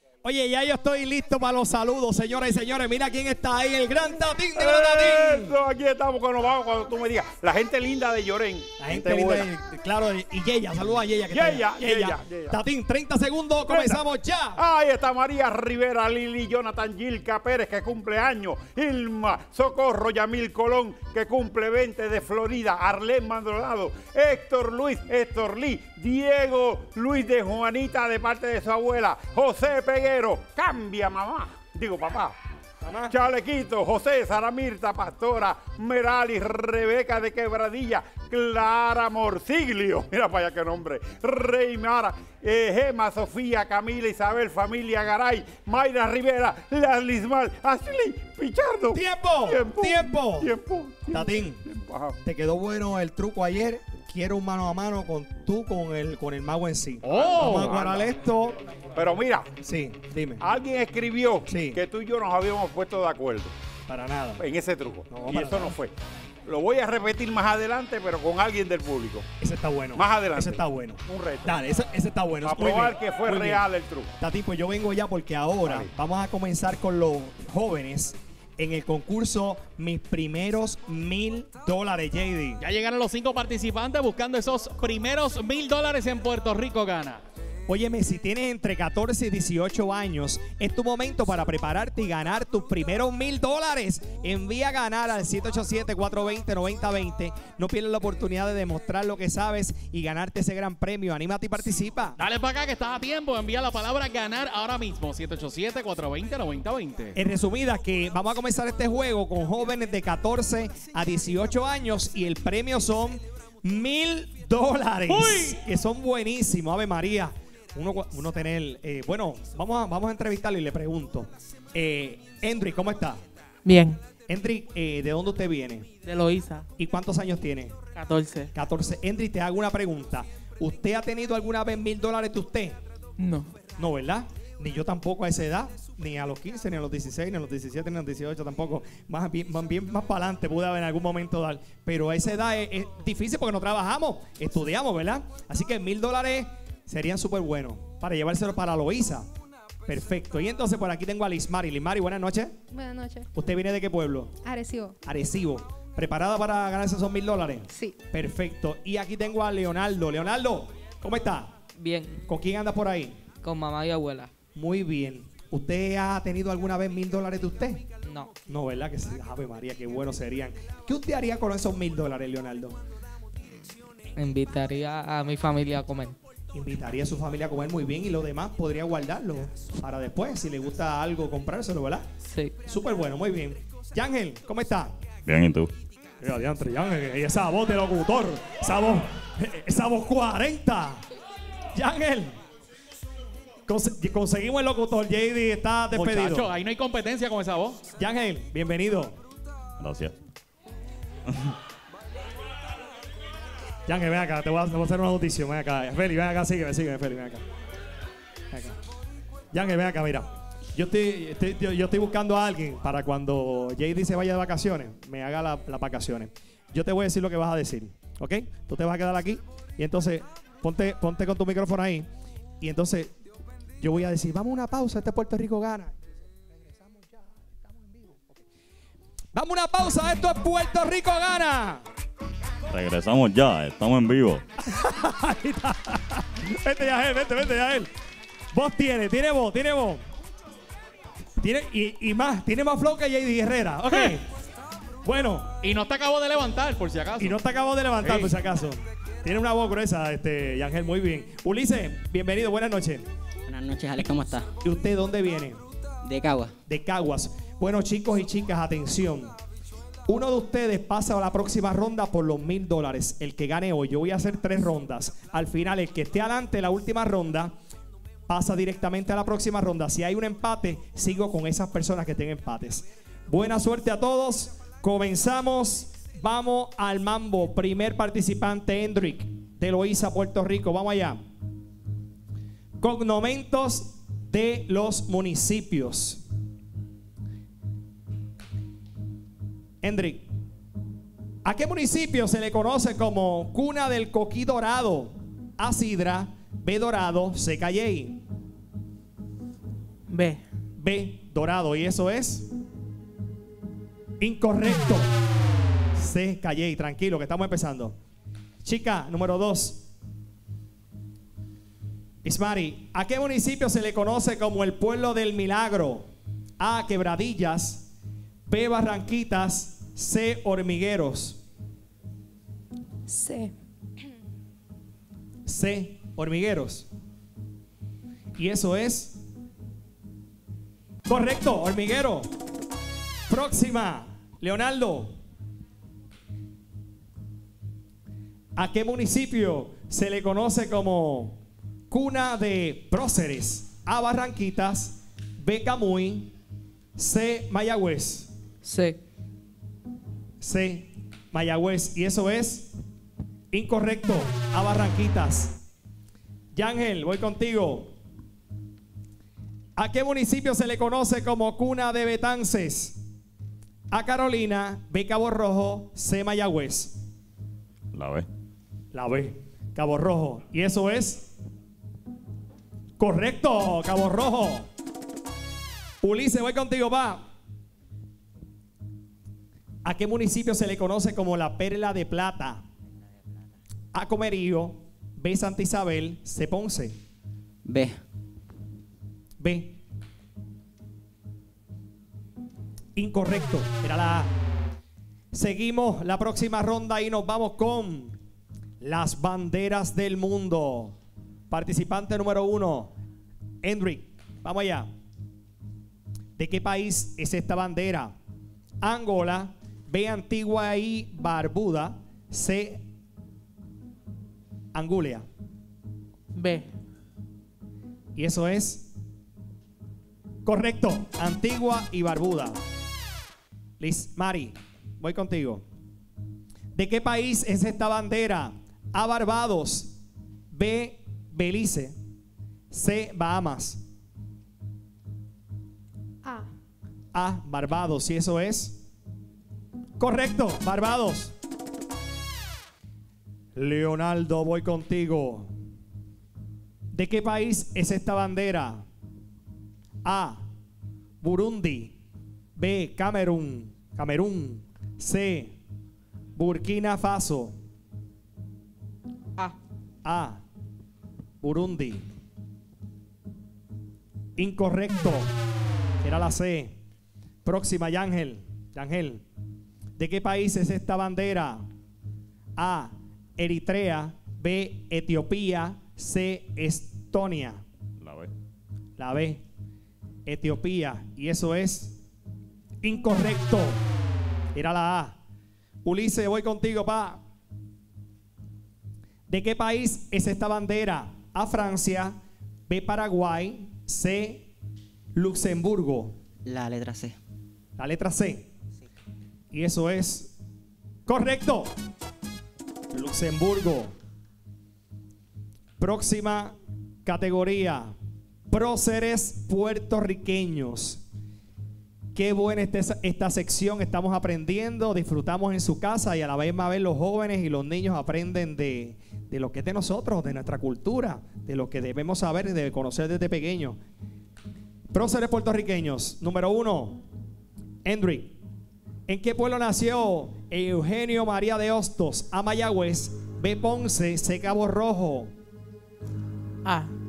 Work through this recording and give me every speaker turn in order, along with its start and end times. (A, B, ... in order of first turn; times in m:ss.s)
0:00.2-0:05.6 A
0:04.6-0:09.5 B
0:08.8-0:14.6 A
0:11.3-0:12.6 B
0:13.7-0:14.0 B
0:14.6-0:32.4 B
0:32.8-0:33.1 A
0:33.1-0:52.2 B
0:48.9-0:50.5 A
0:51.1-0:51.6 A
0:52.2-0:58.6 A
0:57.0-0:57.9 C
0:57.1-0:58.0 B
0:59.0-0:59.5 B
0:59.6-1:00.4 A
1:00.4-1:03.5 B
1:01.5-1:01.8 A
1:03.9-1:04.4 A
1:04.4-1:05.9 B
1:05.1-1:05.8 A
1:06.5-1:09.3 B
1:09.4-1:13.6 A
1:10.0-1:11.6 B
1:12.4-1:14.1 B
1:14.2-1:22.6 A
1:22.6-1:27.2 C
1:27.7-1:42.2 A
1:42.2-1:47.2 C
1:47.1-2:03.2 A
1:55.1-1:55.6 C
2:03.6-2:04.0 D
2:04.3-2:05.9 A
2:06.2-2:06.7 D
2:06.8-2:07.8 A
2:08.0-2:08.5 D
2:08.6-2:12.8 A
2:13.2-2:13.5 D
2:13.8-2:29.3 A
2:29.9-2:32.6 A
2:32.7-2:33.3 E
2:33.4-2:34.3 A
2:34.4-2:35.0 E
2:35.0-2:41.6 A
2:41.9-2:42.2 E
2:42.3-2:43.2 A
2:43.5-2:44.0 D
2:44.6-2:47.8 A
2:48.5-2:52.8 A
2:54.2-2:56.2 D
2:56.5-3:02.1 A
3:02.7-3:05.0 A
3:05.3-3:05.7 F
3:06.2-3:11.0 A
3:11.8-3:12.4 A
3:13.7-3:16.5 A
3:15.9-3:17.8 C
3:18.0-3:19.2 A
3:19.8-3:20.1 F
3:23.9-3:27.4 A
3:28.5-3:28.8 A
3:29.5-3:42.1 A
3:42.6-3:43.1 A
3:43.8-3:46.0 A
3:46.6-3:48.4 A
3:49.3-3:51.8 A
3:52.7-3:54.4 F
3:54.6-3:57.9 A
3:58.5-4:00.0 A
4:01.4-4:04.3 A
4:05.0-4:05.6 A
4:05.6-4:07.4 C
4:07.2-4:13.0 A
4:08.0-4:08.3 C
4:13.5-4:14.5 G
4:14.6-4:15.6 A
4:16.0-4:16.5 G
4:16.7-4:19.3 A
4:20.1-4:27.5 A
4:28.3-4:41.2 A
4:42.8-4:46.2 A
4:49.8-4:50.3 A
4:51.4-4:58.2 A
5:00.1-5:00.4 D
5:00.8-5:02.5 A
5:04.2-5:05.2 A
5:05.9-5:08.0 A
5:08.6-5:09.9 A
5:12.2-5:16.1 A
5:16.6-5:17.9 A
5:18.5-5:21.4 A
5:23.1-5:23.5 E
5:25.5-5:26.9 A
5:28.4-5:29.2 A
5:31.0-5:32.3 A
5:33.3-5:35.2 A
5:38.6-5:41.4 A
5:41.9-5:46.3 A
5:47.0-5:48.3 A
5:48.6-5:49.0 D
5:50.4-5:52.7 A
5:53.5-5:55.6 A
5:56.5-5:57.9 A
5:59.8-6:03.0 A
6:03.9-6:07.0 A
6:07.9-6:08.3 F
6:08.9-6:11.3 A
6:13.0-6:14.7 A
6:16.0-6:17.2 A
6:19.8-6:22.6 A
6:23.9-6:27.0 A
6:27.6-6:28.0 G
6:29.4-6:29.8 A
6:33.0-6:34.3 A
6:35.3-6:38.2 A
6:38.8-6:41.0 A
6:41.5-6:42.9 A
6:43.6-6:44.9 A
6:46.4-6:48.1 A
6:48.8-6:52.8 A
6:54.7-6:55.3 A
6:56.4-6:56.7 D
6:58.2-6:58.9 A
7:00.4-7:02.6 A
7:03.8-7:05.6 A
7:06.8-7:10.0 A
7:10.5-7:12.0 A
7:12.7-7:13.8 A
7:17.1-7:18.8 A
7:20.0-7:21.3 A
7:23.6-7:25.5 A
7:26.9-7:28.8 A
7:30.0-7:30.4 A
7:31.2-7:32.0 A
7:32.6-7:35.5 A
7:36.4-7:37.6 A
7:40.0-7:40.4 A
7:41.4-7:42.1 A
7:44.4-7:45.4 A
7:46.0-7:46.8 A
7:47.4-7:49.2 A
7:50.0-7:51.7 A
7:52.6-7:57.6 A
7:58.0-7:58.3 F
7:59.0-7:59.4 A
8:00.3-8:02.0 A
8:02.8-8:03.8 A
8:04.5-8:05.2 A
8:05.8-8:07.2 A
8:09.3-8:12.2 A
8:12.7-8:14.5 A
8:15.2-8:16.2 A
8:16.4-8:17.2 G
8:17.8-8:18.5 A
8:19.5-8:20.4 A
8:21.1-8:21.7 A
8:22.9-8:24.0 A
8:25.8-8:27.9 A
8:28.5-8:31.0 A
8:32.1-8:43.8 A
8:44.9-8:47.0 A
8:47.8-8:48.4 A
8:49.1-8:55.3 A